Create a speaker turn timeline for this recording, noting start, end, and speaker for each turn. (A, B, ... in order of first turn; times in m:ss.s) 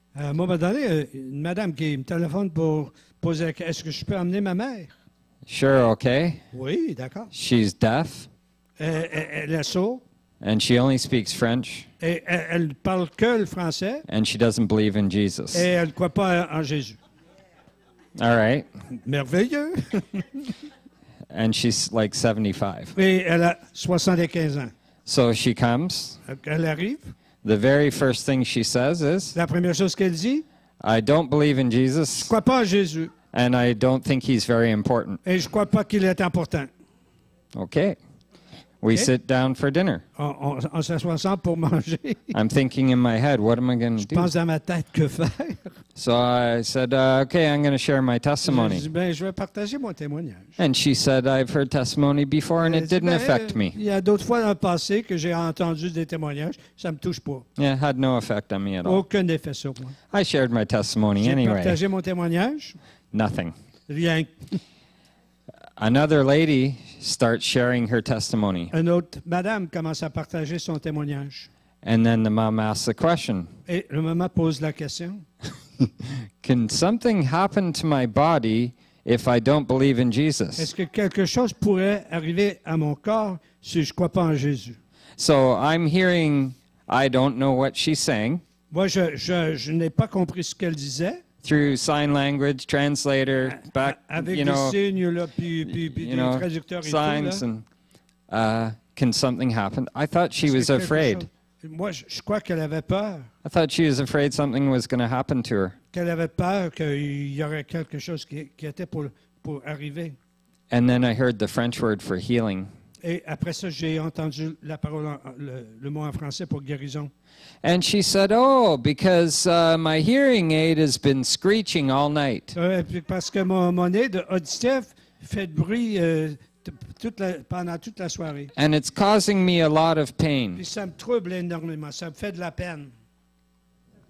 0:00.1-0:04.9 A
0:05.4-0:06.4 B
0:06.5-0:07.3 A
0:07.3-0:08.3 B
0:08.8-0:10.0 A
0:10.4-0:11.9 B
0:12.0-0:14.0 A
0:14.1-0:15.7 B
0:15.5-0:17.0 A
0:18.2-0:18.7 B
0:18.9-0:20.5 A
0:21.3-0:22.9 B
0:22.9-0:24.7 A
0:25.0-0:26.2 B
0:26.2-0:27.1 A
0:27.4-0:29.4 B
0:29.3-0:30.4 A
0:30.8-0:32.3 B
0:32.1-0:33.1 A
0:33.3-0:35.2 B
0:35.2-0:36.7 A
0:37.5-0:38.0 B
0:38.8-0:40.0 B
0:40.2-0:42.4 A
0:42.3-0:44.3 B
0:44.0-0:45.8 A
0:46.0-0:48.8 B
0:48.4-0:50.5 A
0:50.6-0:53.8 B
0:52.6-0:57.4 A
0:57.6-0:59.0 B
0:58.8-1:00.0 A
1:00.1-1:01.8 B
1:01.2-1:02.8 A
1:03.1-1:03.5 B
1:03.9-1:04.6 A
1:05.8-1:08.7 B
1:08.7-1:11.5 A
1:11.8-1:13.5 B
1:13.7-1:15.2 A
1:16.4-1:20.7 B
1:20.6-1:24.8 A
1:25.2-1:28.4 B
1:28.7-1:31.2 A
1:31.4-1:34.8 B
1:33.4-1:37.4 A
1:35.7-1:37.6 B
1:38.3-1:41.2 B
1:40.4-1:43.3 A
1:43.4-1:45.8 B
1:45.9-1:50.2 A
1:50.7-1:52.7 B
1:53.0-1:57.1 A
1:57.6-2:02.5 B
2:02.5-2:08.5 A
2:08.6-2:10.6 B
2:10.5-2:12.9 A